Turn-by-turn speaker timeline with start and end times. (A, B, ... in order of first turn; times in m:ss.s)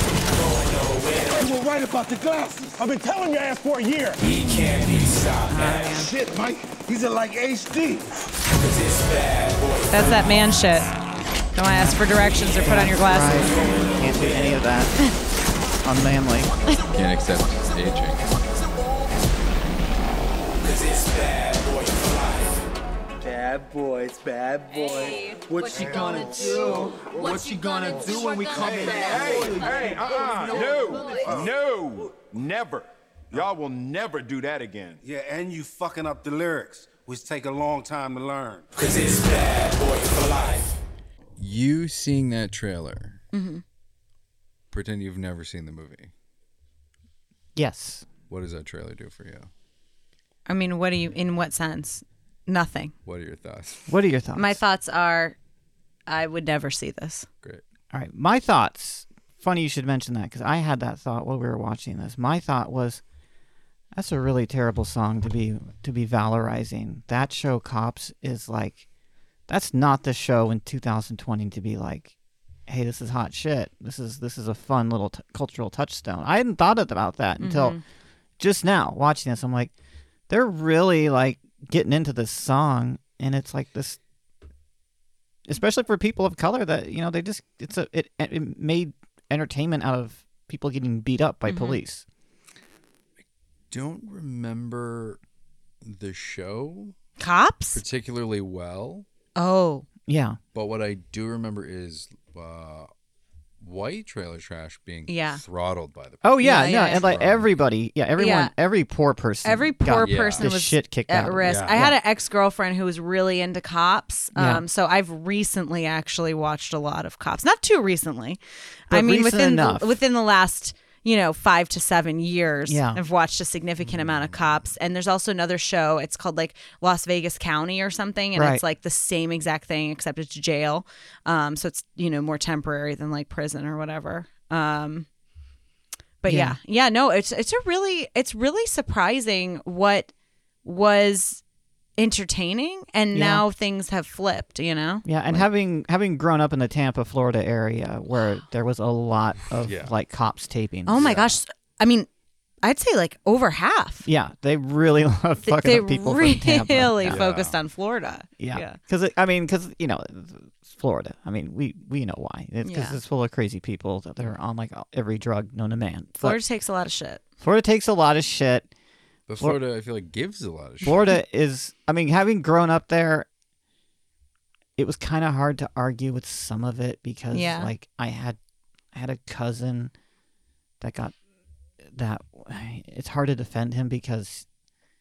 0:00.4-0:01.4 A
0:01.3-0:04.3 B
0:04.2-0:06.0 A
0:05.5-0:06.1 C
0:05.9-0:08.1 B
0:08.6-0:10.2 A
0:09.9-0:10.9 C
0:11.6-0:13.5 C
0:11.6-0:12.0 D
0:12.6-0:14.9 D
0:15.8-0:16.5 D
0:17.0-0:18.2 E
0:20.6-0:22.6 A
0:23.2-0:31.5 A
0:25.7-0:38.7 B
0:38.8-0:40.8 A
0:41.4-0:43.2 E
0:43.3-0:43.6 C
0:44.7-0:46.1 E
0:47.6-0:48.1 D
0:48.3-0:49.5 E
0:50.5-0:52.9 C
0:53.0-0:53.9 E
0:53.9-0:54.6 D
0:54.4-0:55.4 C
0:56.1-0:57.3 C
0:57.9-1:03.0 D
1:04.0-1:08.8 D
1:09.5-1:12.1 D
1:12.7-1:17.8 D
1:17.4-1:17.8 C
1:18.4-1:19.7 D
1:20.3-1:24.0 D
1:25.5-1:32.0 D
1:31.5-1:31.8 C
1:33.7-1:35.2 E
1:35.8-1:37.0 E
1:37.2-1:37.8 C
1:37.7-1:39.1 E
1:39.4-1:39.9 C
1:40.1-1:40.4 D
1:40.5-1:42.9 E
1:43.6-1:47.5 E
1:45.1-1:45.4 C
1:46.2-1:52.0 D
1:46.4-1:47.1 C
1:48.2-1:48.5 C
1:49.4-2:15.1 C
1:50.0-1:50.5 E
1:51.4-1:51.8 E
1:54.4-1:54.6 D
1:58.9-2:00.0 D
2:02.7-2:03.0 D
2:03.8-2:04.4 E
2:08.4-2:08.6 D
2:16.2-2:20.1 C
2:16.3-2:16.6 D
2:20.6-2:21.4 C
2:22.0-2:25.1 C
2:23.1-2:23.4 D
2:25.0-2:31.2 D
2:29.6-2:30.0 E
2:30.9-2:32.1 C
2:31.0-2:31.4 E
2:32.6-2:34.1 C
2:34.0-2:37.2 D
2:35.4-2:38.8 C
2:37.1-2:37.6 E
2:38.4-2:46.4 D
2:42.6-2:43.0 C
2:46.2-2:47.2 C
2:47.4-2:48.7 D
2:49.3-2:51.1 E
2:50.8-2:53.3 D
2:54.8-2:58.4 D
2:57.3-2:57.7 C
2:58.9-2:59.9 D
3:00.8-3:01.2 D
3:01.8-3:04.5 D